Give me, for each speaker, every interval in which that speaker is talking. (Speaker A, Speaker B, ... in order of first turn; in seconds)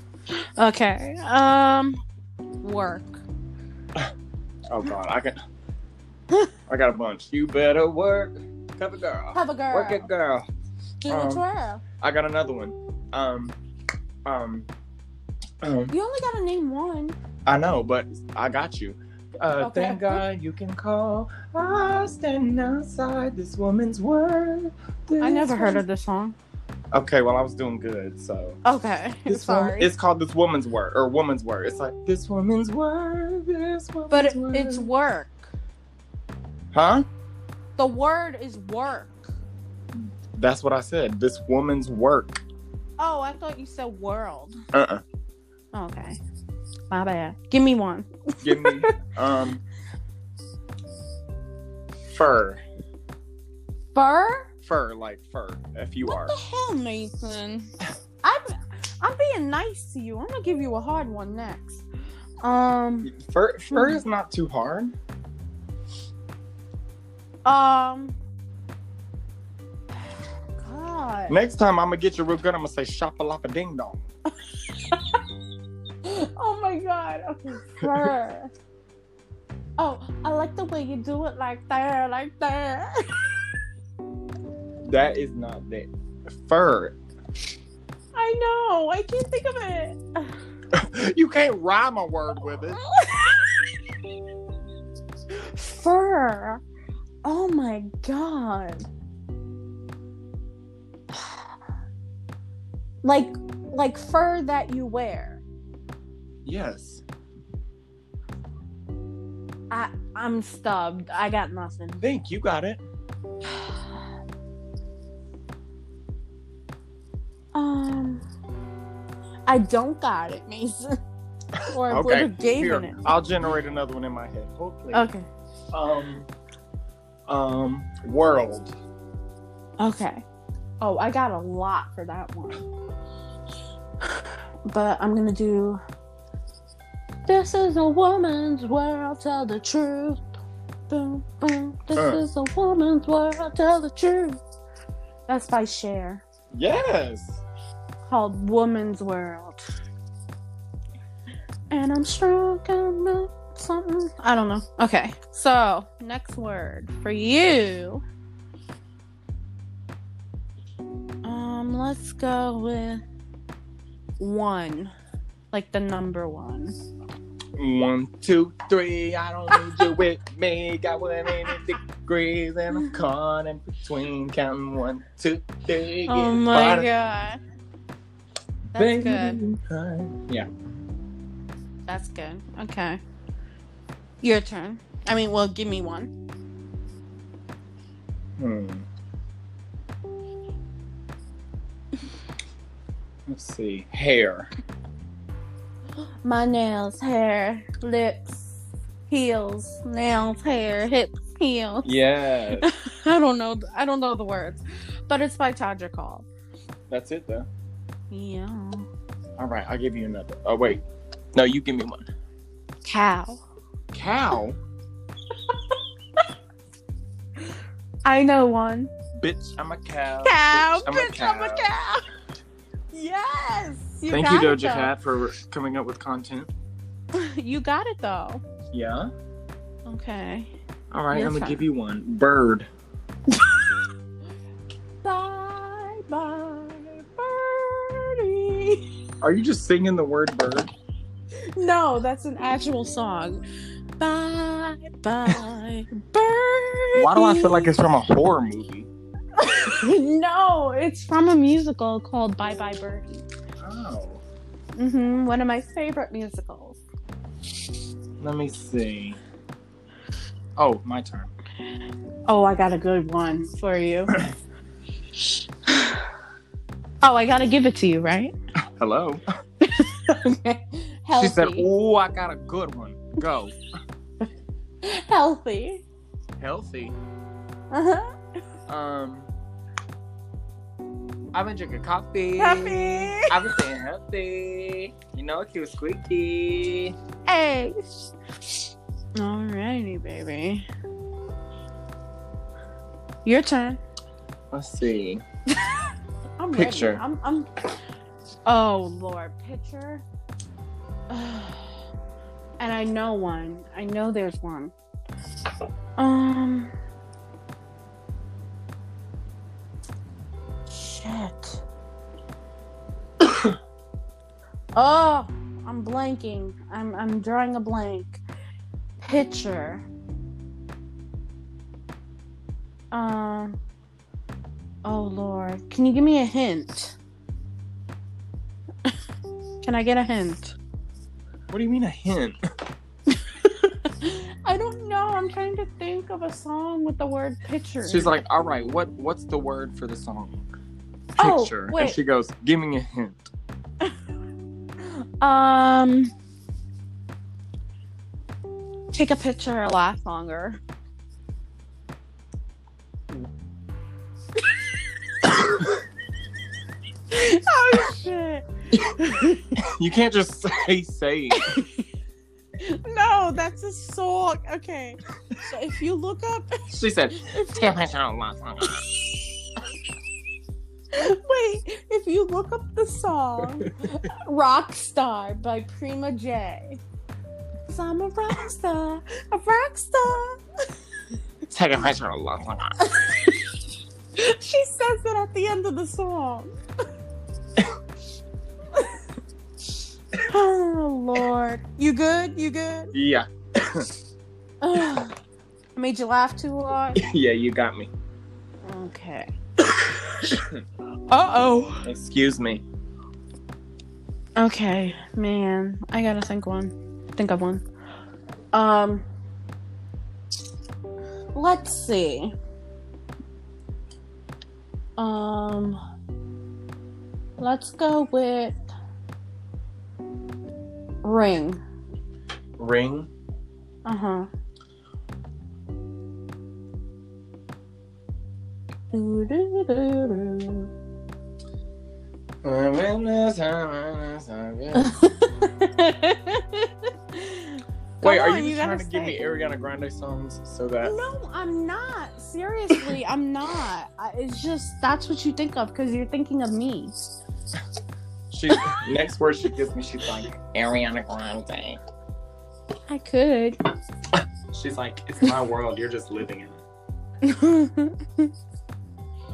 Speaker A: 0.4-2.0, 2.6-3.2, 9.3-10.1, 11.0-11.8, 15.9-17.2, 19.6-20.2, 25.2-26.4, 28.6-29.9, 34.1-35.5, 37.8-39.2, 43.0-44.6, 45.7-46.2, 46.9-49.0, 54.0-54.5, 56.1-57.7, 58.2-61.9, 62.4-63.1, 63.7-64.0, 67.5-68.2, 70.6-71.4, 74.8-75.2, 76.0-78.5, 79.8-83.5, 88.2-90.3, 92.8-93.6, 95.3-96.6, 97.2-98.8, 103.0-105.4, 109.7-112.0, 113.5-113.8, 117.5-118.2, 119.5-121.0, 121.7-123.1, 124.9-125.3, 129.8-130.2, 130.8-132.6, 134.0-135.8, 137.3-140.2, 140.9-144.4, 145.3-146.2, 148.1-149.6, 151.7-158.0, 161.2-163.0, 164.2-164.9, 165.5-166.8, 169.5-169.9, 176.1-177.4, 178.8-179.4, 181.9-183.0, 184.2-186.1, 196.2-201.9, 202.6-206.3, 208.1-208.9, 212.8-213.4, 215.5-216.2, 218.1-218.9, 220.2-222.0, 222.9-224.9, 227.1-228.4, 229.9-230.5, 231.1-231.6, 235.0-238.8, 241.4-243.4, 244.0-247.8, 249.4-253.2, 254.8-256.8, 262.3-264.2, 265.7-266.0, 267.0-268.3, 269.6-271.7, 274.8-275.8, 277.7-278.1, 282.4-283.4, 287.3-287.9, 289.2-290.7, 293.2-293.8, 296.4-297.5, 298.5-300.0, 301.1-301.7, 302.6-304.7, 306.0-306.7, 310.7-311.6, 314.8-318.2, 319.0-319.9, 322.9-323.6, 324.9-327.0, 329.6-330.6, 333.1-338.2, 341.2-342.0, 344.8-346.1, 348.9-350.6, 357.1-359.6, 361.4-361.8, 362.6-367.7, 370.9-376.8, 377.7-380.4, 382.8-383.4, 384.2-386.5, 390.2-392.9, 394.6-395.1, 395.8-397.0, 398.6-399.3, 401.1-401.9, 404.4-407.6, 408.5-409.1, 411.4-412.3, 415.0-415.8, 417.4-418.6, 421.0-421.6, 423.9-424.3, 428.9-430.7, 434.8-439.2, 440.8-446.9, 452.9-453.6, 457.2-458.3
Speaker B: 4.7-5.4, 6.7-10.5, 11.1-11.4, 12.0-13.6, 14.2-14.7, 15.6-15.9, 17.5-25.8, 26.9-28.6, 29.3-34.9, 36.7-37.0, 40.3-42.4, 44.7-45.0, 48.4-49.6, 52.1-52.6, 54.6-56.4, 63.0-65.0, 71.3-74.0, 77.8-78.1, 84.8-87.0, 90.7-92.8, 106.5-107.0, 112.0-112.8, 121.6-125.1, 125.7-126.3, 127.3-128.7, 141.9-142.2, 146.5-147.4, 167.6-176.9, 178.7-180.5, 188.4-188.9, 193.3-194.5, 201.8-202.7, 206.9-207.5, 209.4-210.8, 211.3-212.1, 213.9-214.6, 219.2-221.7, 224.1-226.5, 228.7-229.1, 230.9-232.7, 239.2-240.7, 247.0-248.9, 253.6-254.2, 258.2-259.2, 260.6-261.3, 268.8-269.2, 271.2-273.6, 276.4-277.0, 278.7-279.3, 281.3-287.0, 294.5-295.2, 296.6-297.0, 331.5-332.4, 337.9-340.4, 341.2-343.3, 359.6-361.6, 366.7-368.9, 381.5-382.8, 392.9-393.9, 396.9-397.9, 400.2-400.6, 401.8-402.6, 422.6-423.1, 432.4-435.0, 438.0-441.0, 448.3-451.8, 454.5-456.6